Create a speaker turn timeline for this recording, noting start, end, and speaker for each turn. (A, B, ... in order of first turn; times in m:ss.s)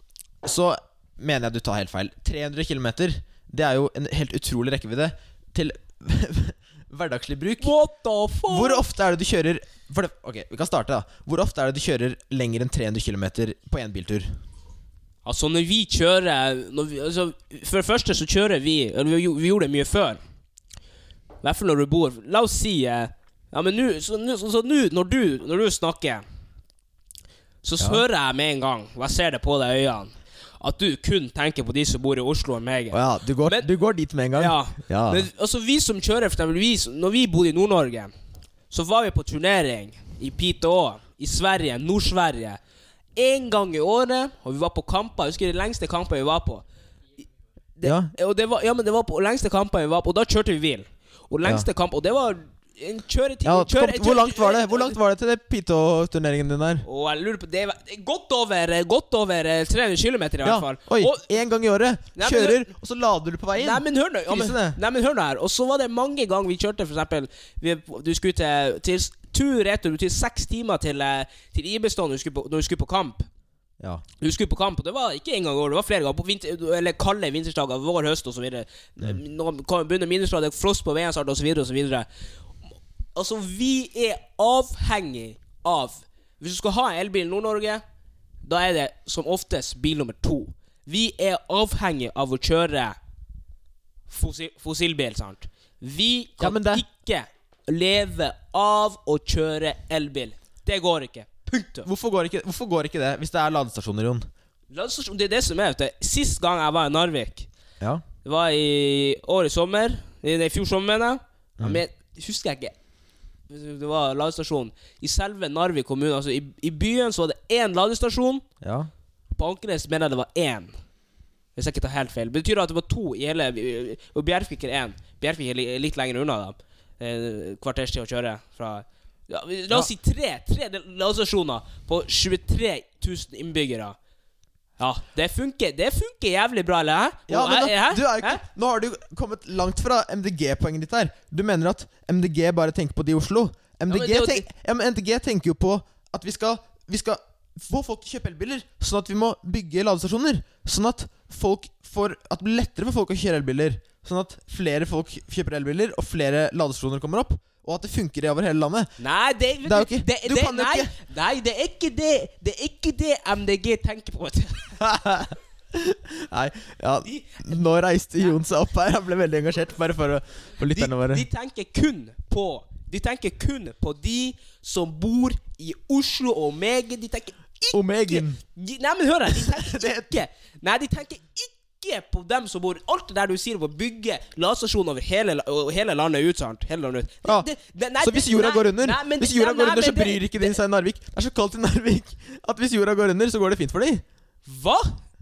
0:00.4-0:07.8 A
0:07.6-0:08.8 B
0:08.4-0:14.3 A
0:15.2-0:20.2 B
0:21.4-0:26.2 B
0:27.6-0:33.7 B
0:32.9-0:35.3 A
0:34.3-0:38.1 B
0:38.7-0:42.6 B
0:43.1-0:46.6 B
0:47.8-0:55.0 B
0:47.8-0:48.1 A
0:53.4-0:56.8 A
0:56.8-1:01.2 B
1:00.4-1:04.8 A
1:02.2-1:02.6 B
1:03.5-1:13.3 B
1:14.2-1:22.1 B
1:23.1-1:27.8 B
1:28.4-1:33.0 B
1:34.1-1:41.9 B
1:36.4-1:36.8 A
1:41.8-1:44.3 A
1:44.7-1:47.5 B
1:48.2-1:52.7 B
1:53.5-1:58.4 B
1:58.6-1:58.9 A
1:59.3-2:00.8 B
2:01.5-2:14.0 B
2:14.8-2:18.4 B
2:17.3-2:38.9 A
2:23.9-2:24.5 B
2:39.0-2:44.8 B
2:39.6-2:40.9 A
2:44.8-2:51.2 A
2:47.0-2:47.4 B
2:50.7-3:10.6 B
2:57.7-2:58.4 A
2:59.4-3:00.2 A
3:08.0-3:14.0 A
3:14.4-3:15.0 B